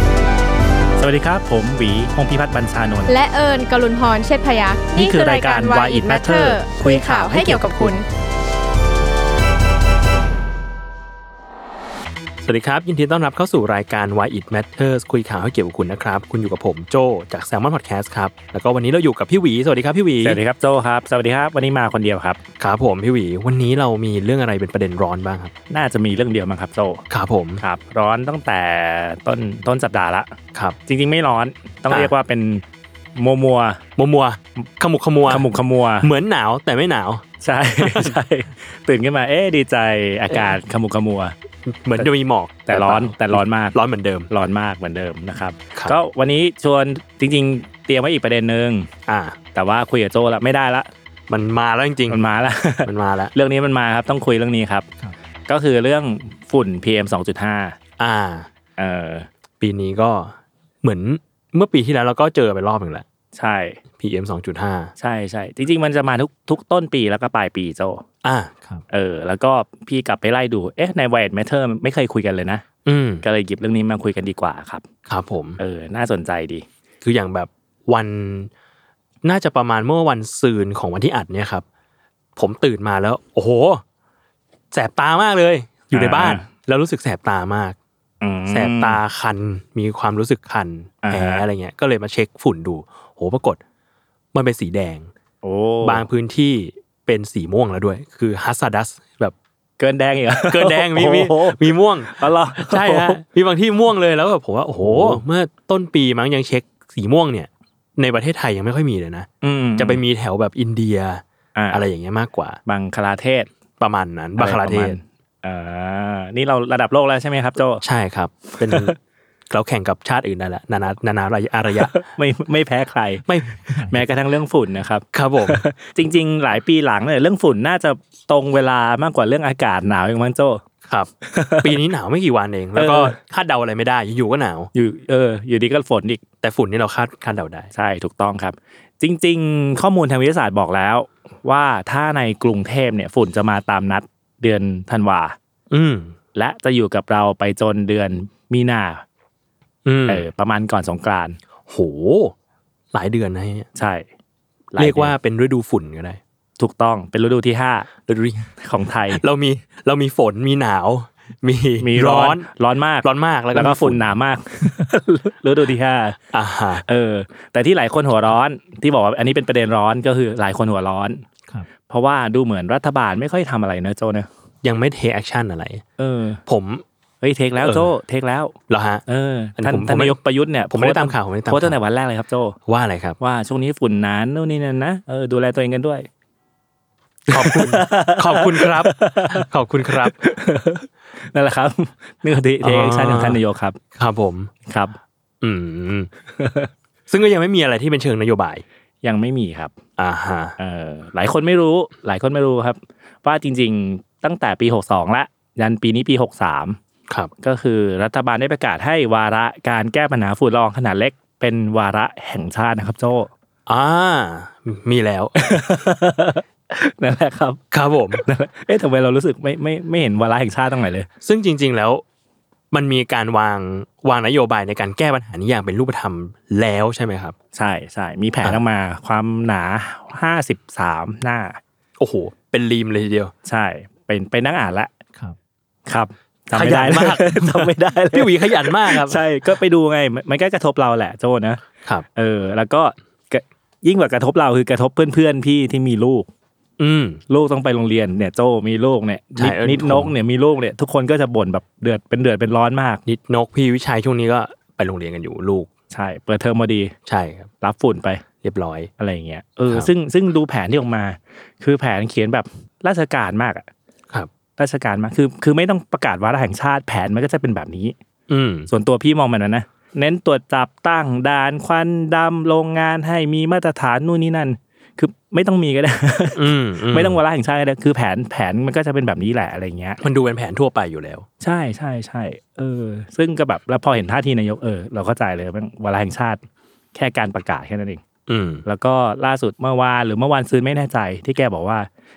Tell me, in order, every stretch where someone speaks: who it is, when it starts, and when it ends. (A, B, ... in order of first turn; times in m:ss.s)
0:01.0-0:03.1 A
0:03.1-0:08.0 B
0:04.9-0:08.0 A
0:12.4-0:20.4 C
0:20.2-0:22.4 A
0:22.6-0:25.5 C
0:25.7-0:27.0 A
0:27.1-0:27.6 C
0:27.6-0:30.3 A
0:30.8-0:32.6 A
0:33.2-0:33.8 A
0:34.0-0:35.5 C
0:35.3-0:36.1 A
0:36.0-0:37.2 C
0:37.4-0:41.3 A
0:37.8-0:38.2 C
0:41.6-0:44.3 C
0:42.7-0:43.8 A
0:44.3-0:48.9 A
0:49.1-0:49.4 C
0:49.5-0:50.9 A
0:51.3-0:52.2 C
0:52.1-0:54.9 A
0:52.8-0:53.3 C
0:55.5-0:57.8 A
0:58.0-0:58.5 C
0:58.8-0:59.3 A
0:59.6-1:03.0 C
1:03.3-1:03.8 A
1:04.0-1:04.9 C
1:05.0-1:08.0 A
1:08.2-1:08.5 C
1:08.9-1:12.6 A
1:12.8-1:13.2 C
1:13.2-1:14.8 A
1:15.1-1:15.6 C
1:15.6-1:16.6 A
1:17.0-1:18.5 C
1:19.2-1:21.6 C
1:22.4-1:23.8 C
1:24.7-1:27.8 C
1:25.9-1:26.5 A
1:28.2-1:29.0 A
1:28.5-1:33.6 C
1:31.0-1:31.4 A
1:34.3-1:35.1 C
1:35.4-1:36.0 A
1:35.8-1:39.3 C
1:39.8-1:43.2 A
1:40.5-1:52.6 C
1:44.8-1:45.2 A
1:49.4-1:50.0 A
1:51.5-1:51.8 A
1:52.6-1:53.5 A
1:53.8-1:55.0 C
1:54.4-1:57.8 A
1:57.8-1:58.9 C
1:58.5-1:58.9 A
1:59.5-2:01.9 C
2:01.7-2:10.6 A
2:03.2-2:03.6 C
2:05.1-2:05.6 C
2:10.8-2:14.7 C
2:11.2-2:11.8 A
2:12.7-2:13.2 A
2:14.7-2:16.2 A
2:16.4-2:17.7 C
2:17.7-2:25.4 A
2:25.7-2:26.1 C
2:26.3-2:29.0 A
2:29.8-2:30.2 C
2:30.1-2:31.4 A
2:31.7-2:32.3 C
2:32.9-2:33.7 C
2:33.8-2:34.0 A
2:34.7-2:35.1 A
2:34.8-2:36.2 C
2:36.6-2:37.9 A
2:38.0-2:38.5 C
2:38.6-2:39.2 A
2:39.1-2:42.5 C
2:41.8-2:46.2 A
2:43.0-2:44.0 C
2:46.3-2:46.8 C
2:46.8-2:51.2 A
2:51.8-2:54.3 A
2:54.6-2:55.8 C
2:56.0-2:56.4 A
2:56.4-2:56.8 C
2:57.2-2:58.5 A
2:57.6-2:57.9 C
2:58.7-2:59.0 C
2:59.0-3:02.6 A
2:59.6-3:00.2 C
3:00.7-3:01.8 C
3:02.6-3:03.2 C
3:03.2-3:06.1 A
3:07.3-3:10.2 C
3:07.3-3:13.8 A
3:12.6-3:13.4 C
3:14.0-3:14.5 C
3:14.6-3:14.9 A
3:15.4-3:16.1 C
3:16.4-3:16.7 A
3:17.1-3:18.6 C
3:19.0-3:19.7 A
3:20.0-3:20.5 C
3:20.6-3:26.8 A
3:27.4-3:33.3 A
3:33.7-3:35.4 C
3:35.3-3:37.6 A
3:37.7-3:38.2 C
3:38.1-3:41.1 A
3:41.2-3:42.0 C
3:42.7-3:47.4 C
3:47.5-3:51.6 A
3:52.0-3:53.3 C
3:53.4-3:54.9 A
3:55.9-4:01.6 A
3:56.5-3:59.2 C
4:02.1-4:06.3 A
4:06.8-4:07.2 C
4:07.3-4:13.0 A
4:09.4-4:10.1 C
4:13.0-4:15.7 C
4:15.9-4:16.9 A
4:17.0-4:17.5 C
4:17.6-4:18.2 A
4:18.4-4:18.9 C
4:19.0-4:23.7 A
4:24.6-4:28.0 A
4:28.3-4:28.7 C
4:28.7-4:40.0 A
4:36.3-4:37.2 C
4:40.0-4:41.2 C
4:41.4-4:46.4 A
4:46.9-4:48.0 A
4:48.3-4:48.6 C
4:48.6-4:51.9 A